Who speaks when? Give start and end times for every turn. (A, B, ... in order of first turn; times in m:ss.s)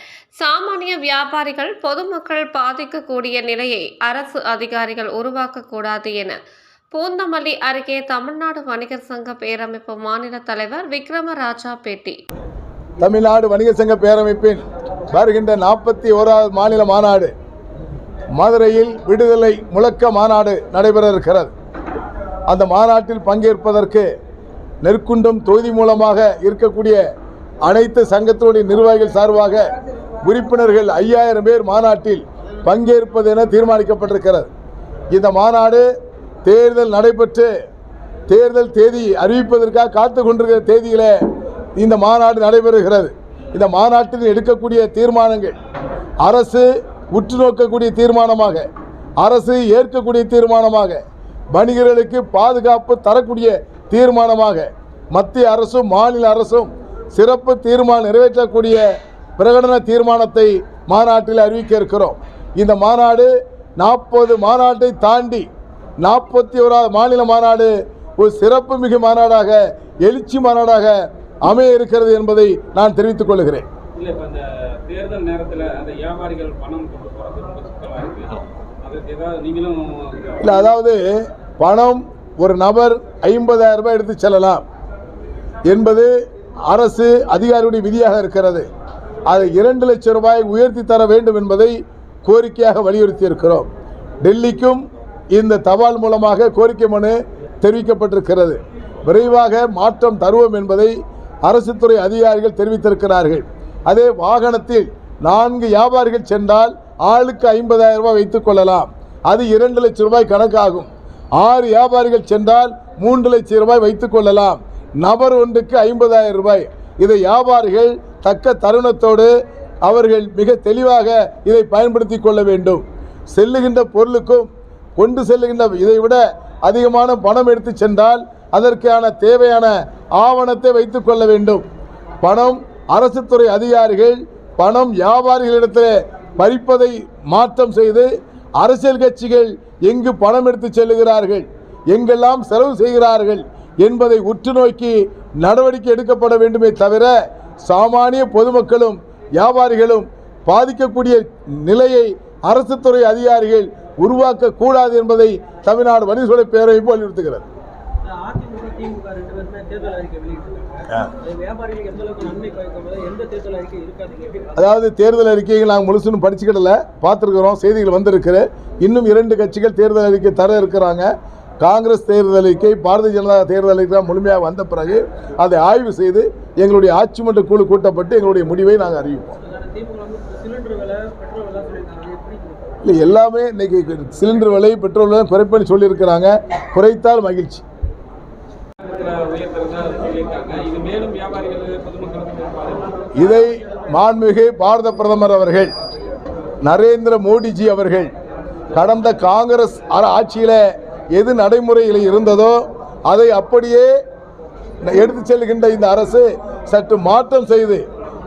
0:00.4-0:06.4 A
0:06.9-0:12.2 A
0:13.0-0:17.3 B
0:18.3-0:21.5 B
0:22.5-0:24.1 B
0:24.8-0:27.0 B
0:27.6-0:34.5 B
0:35.1-0:35.9 B
0:36.4-0:37.5 B
0:38.3-0:41.2 B
0:41.8-0:45.6 B
0:46.2-0:48.7 B
0:49.2-0:51.0 B
0:51.5-0:58.8 B
0:59.4-1:05.5 B
1:06.0-1:13.7 B
1:13.9-1:20.7 C
1:20.4-1:24.6 B
1:25.7-1:26.1 B
1:26.7-1:28.7 B
1:29.3-1:33.7 B
1:34.2-1:59.3 B
1:59.8-2:11.6 B
2:12.2-2:37.5 B
2:38.0-2:44.6 D
2:44.6-2:51.1 B
2:51.6-2:59.4 B
2:59.4-3:02.8 D
3:02.8-3:07.6 B
3:08.9-3:12.9 C
3:13.2-3:15.7 B
3:16.6-3:18.1 B
3:18.7-3:23.9 B
3:24.8-3:27.8 B